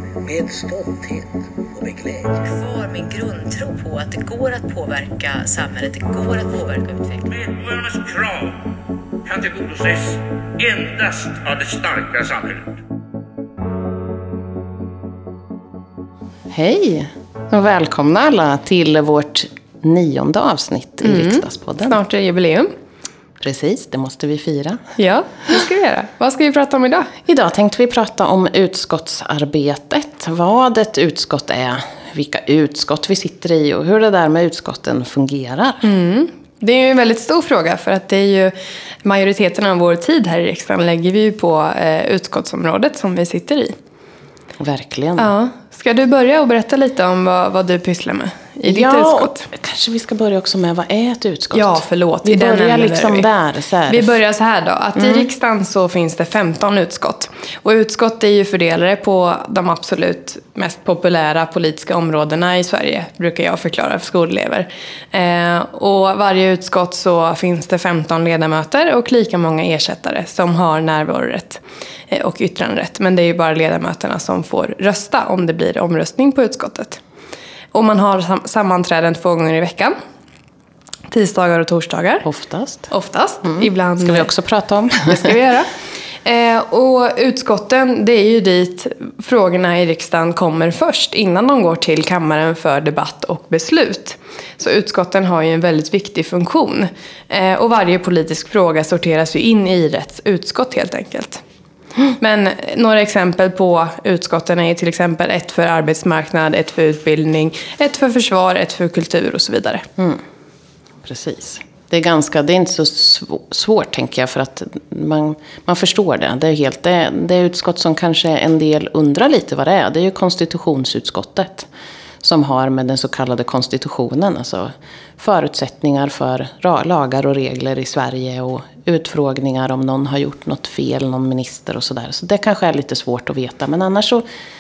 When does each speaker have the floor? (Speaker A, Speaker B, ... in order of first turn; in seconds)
Speaker A: 0.2-2.4
Speaker B: 2.4-7.2
Speaker C: 7.2-8.6, 9.2-12.8
Speaker D: 16.5-22.0, 23.4-24.8, 27.3-35.8, 44.6-45.3, 48.7-54.1, 55.0-55.3, 82.2-82.9, 83.4-85.4, 111.0-121.7, 122.2-134.2
Speaker E: 21.0-22.7, 25.0-27.1, 35.8-43.8, 45.2-49.5, 51.5-53.3, 53.9-77.0, 77.7-80.0, 81.1-82.2, 82.9-84.3, 85.1-85.7, 86.2-101.4, 102.2-109.8